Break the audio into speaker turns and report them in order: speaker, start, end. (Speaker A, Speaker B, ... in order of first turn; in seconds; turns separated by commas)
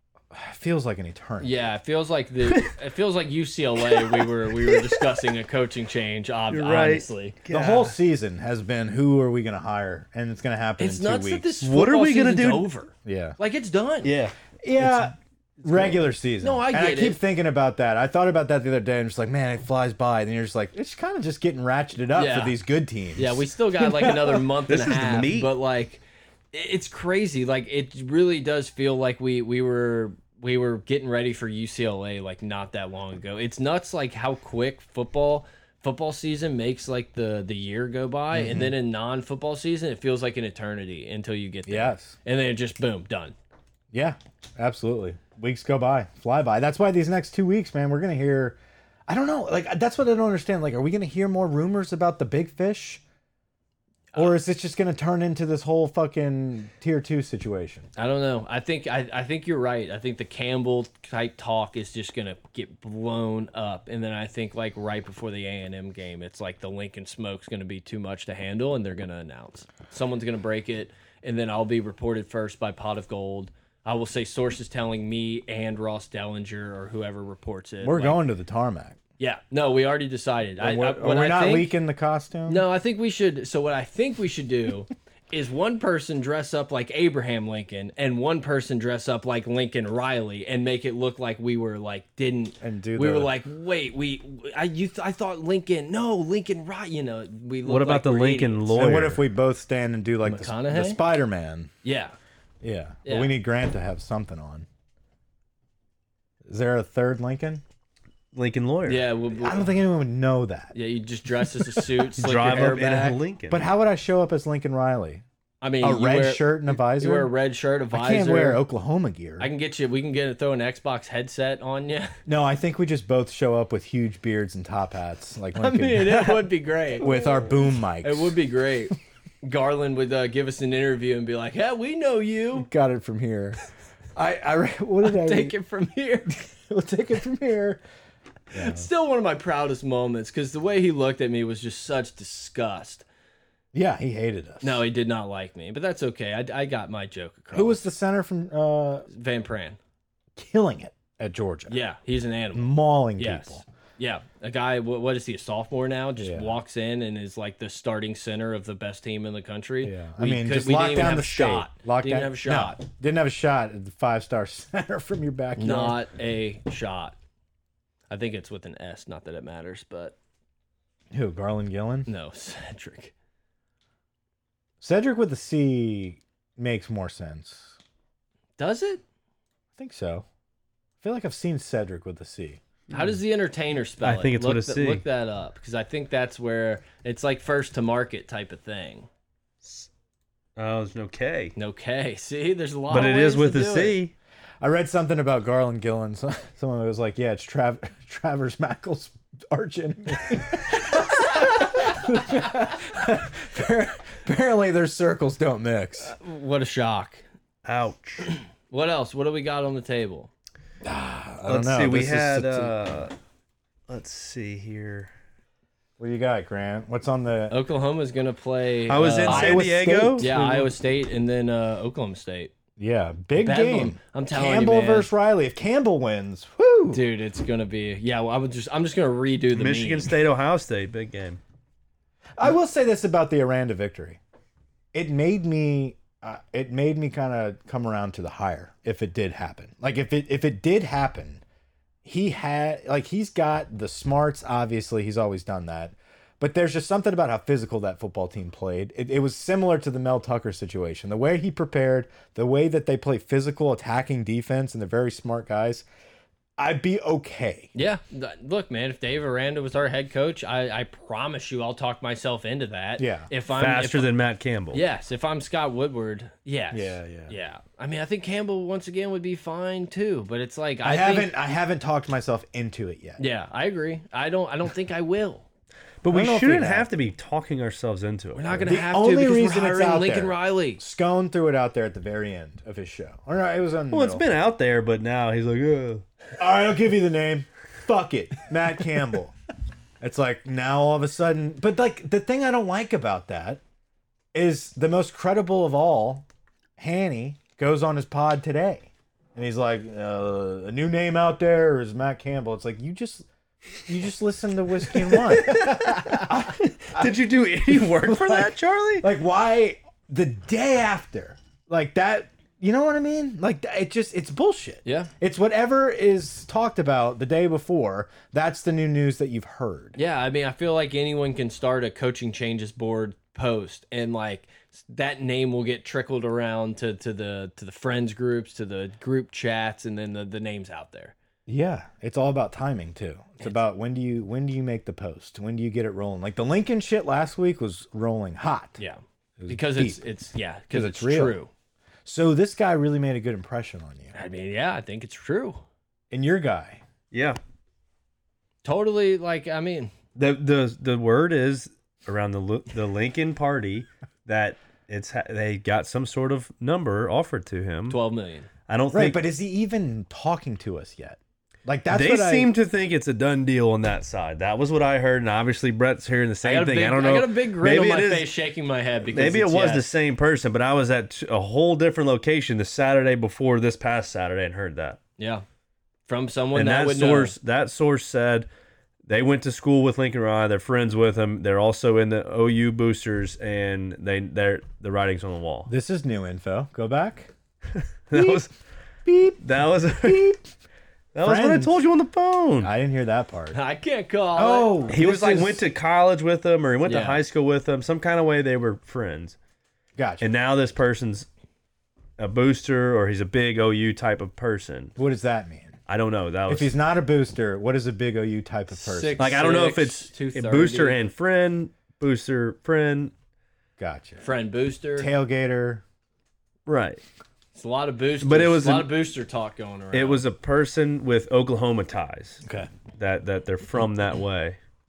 Speaker A: 0.3-1.6, Speaker B: 1.4-7.4, Speaker C: 3.9-5.1, Speaker C: 6.5-8.0, Speaker A: 7.5-11.5, Speaker B: 10.8-14.1, Speaker C: 11.6-12.7, Speaker A: 13.1-13.4, Speaker C: 14.0-16.1, Speaker A: 14.6-24.2, Speaker B: 16.4-17.2, Speaker B: 22.1-22.6, Speaker B: 23.2-43.4, Speaker C: 24.7-25.5, Speaker A: 38.3-38.7, Speaker A: 41.7-42.2, Speaker A: 43.9-53.0, Speaker A: 54.1-57.9, Speaker B: 58.0-78.2, Speaker A: 77.8-79.0, Speaker B: 79.2-81.8, Speaker A: 80.6-82.7, Speaker B: 82.5-98.8, Speaker A: 92.6-93.3, Speaker C: 97.7-99.2, Speaker A: 98.7-101.7, Speaker B: 100.2-101.0, Speaker B: 101.8-102.2, Speaker A: 102.6-104.7, Speaker B: 103.0-103.3, Speaker A: 106.5-107.6, Speaker C: 108.3-109.0, Speaker B: 108.8-109.7, Speaker A: 109.4-110.7, Speaker B: 110.7-113.2, Speaker C: 112.2-113.7, Speaker A: 113.5-115.2, Speaker B: 115.6-118.6, Speaker A: 115.8-117.3, Speaker A: 117.9-119.5, Speaker B: 119.4-122.2, Speaker A: 122.3-128.4, Speaker B: 125.6-132.7, Speaker A: 132.6-133.6, Speaker A: 134.2-135.6, Speaker B: 135.0-136.4, Speaker A: 136.4-137.8, Speaker A: 138.5-138.9, Speaker B: 138.5-143.1, Speaker A: 143.7-144.8, Speaker B: 144.6-147.8, Speaker A: 147.5-149.1, Speaker B: 149.1-149.8, Speaker A: 150.4-151.8, Speaker B: 151.7-162.8, Speaker A: 152.5-153.7, Speaker A: 156.2-156.6, Speaker A: 159.8-166.0, Speaker B: 165.6-167.2, Speaker B: 168.1-170.2, Speaker A: 171.1-172.1, Speaker B: 172.1-173.1, Speaker A: 174.8-177.8, Speaker B: 178.6-179.0, Speaker A: 179.8-180.3, Speaker A: 181.0-182.6, Speaker B: 182.9-189.1, Speaker C: 184.0-185.0, Speaker C: 190.6-191.6, Speaker B: 191.6-194.0, Speaker C: 192.9-194.1, Speaker A: 194.6-206.1, Speaker B: 206.0-207.2, Speaker C: 207.7-208.3, Speaker B: 208.2-210.3, Speaker A: 210.8-212.7, Speaker C: 211.5-213.1, Speaker C: 213.9-215.1, Speaker A: 216.0-217.6, Speaker B: 217.5-219.6, Speaker C: 218.9-220.3, Speaker A: 219.2-220.7, Speaker B: 220.2-222.5, Speaker A: 222.8-227.0, Speaker B: 223.4-225.1, Speaker B: 226.9-230.2, Speaker C: 229.5-231.4, Speaker A: 232.4-234.2, Speaker A: 234.9-241.4, Speaker A: 242.0-255.9, Speaker A: 256.6-257.7, Speaker B: 257.8-264.1, Speaker A: 263.0-263.3, Speaker C: 263.5-264.8, Speaker B: 264.7-271.3, Speaker A: 266.7-267.3, Speaker A: 270.8-273.2, Speaker B: 273.2-275.5, Speaker C: 276.0-278.7, Speaker A: 276.1-276.9, Speaker B: 278.4-280.8, Speaker A: 278.7-284.3, Speaker C: 283.9-286.0, Speaker A: 286.4-289.4, Speaker A: 290.0-293.6, Speaker A: 294.3-296.3, Speaker A: 296.8-303.3, Speaker A: 303.9-307.1, Speaker C: 305.0-309.1, Speaker A: 307.7-320.0, Speaker B: 314.9-315.1, Speaker B: 320.0-331.1, Speaker A: 331.5-338.8, Speaker B: 338.8-341.5, Speaker A: 339.4-340.0, Speaker A: 340.7-341.4, Speaker A: 342.1-344.1, Speaker B: 344.1-345.6, Speaker A: 346.1-346.8, Speaker C: 347.1-347.4, Speaker B: 348.6-349.9, Speaker C: 350.1-358.0, Speaker B: 357.9-358.5, Speaker C: 358.7-359.2, Speaker A: 358.9-362.5, Speaker C: 361.9-368.3, Speaker B: 366.4-369.9, Speaker C: 369.1-375.0, Speaker B: 375.2-375.4, Speaker B: 376.1-377.4, Speaker C: 376.5-378.5, Speaker C: 379.1-385.7, Speaker A: 385.7-387.3, Speaker C: 388.1-388.5, Speaker A: 388.1-388.5, Speaker A: 389.1-389.4, Speaker C: 389.4-390.4, Speaker A: 390.0-390.4, Speaker C: 391.1-392.7, Speaker A: 391.2-391.8, Speaker A: 392.6-393.6, Speaker B: 393.5-394.9, Speaker A: 394.4-395.7, Speaker C: 394.9-399.4, Speaker B: 396.9-397.2, Speaker A: 400.0-400.3, Speaker C: 400.2-401.3, Speaker C: 402.2-404.9, Speaker A: 405.0-405.8, Speaker C: 405.9-406.7, Speaker A: 406.5-409.3, Speaker B: 408.7-411.0, Speaker C: 409.2-413.1, Speaker A: 413.8-414.2, Speaker B: 414.2-415.1, Speaker A: 415.0-415.8, Speaker C: 416.7-417.0, Speaker B: 417.6-420.2, Speaker C: 418.2-418.9, Speaker C: 419.9-422.4, Speaker A: 422.4-422.7, Speaker C: 423.0-424.6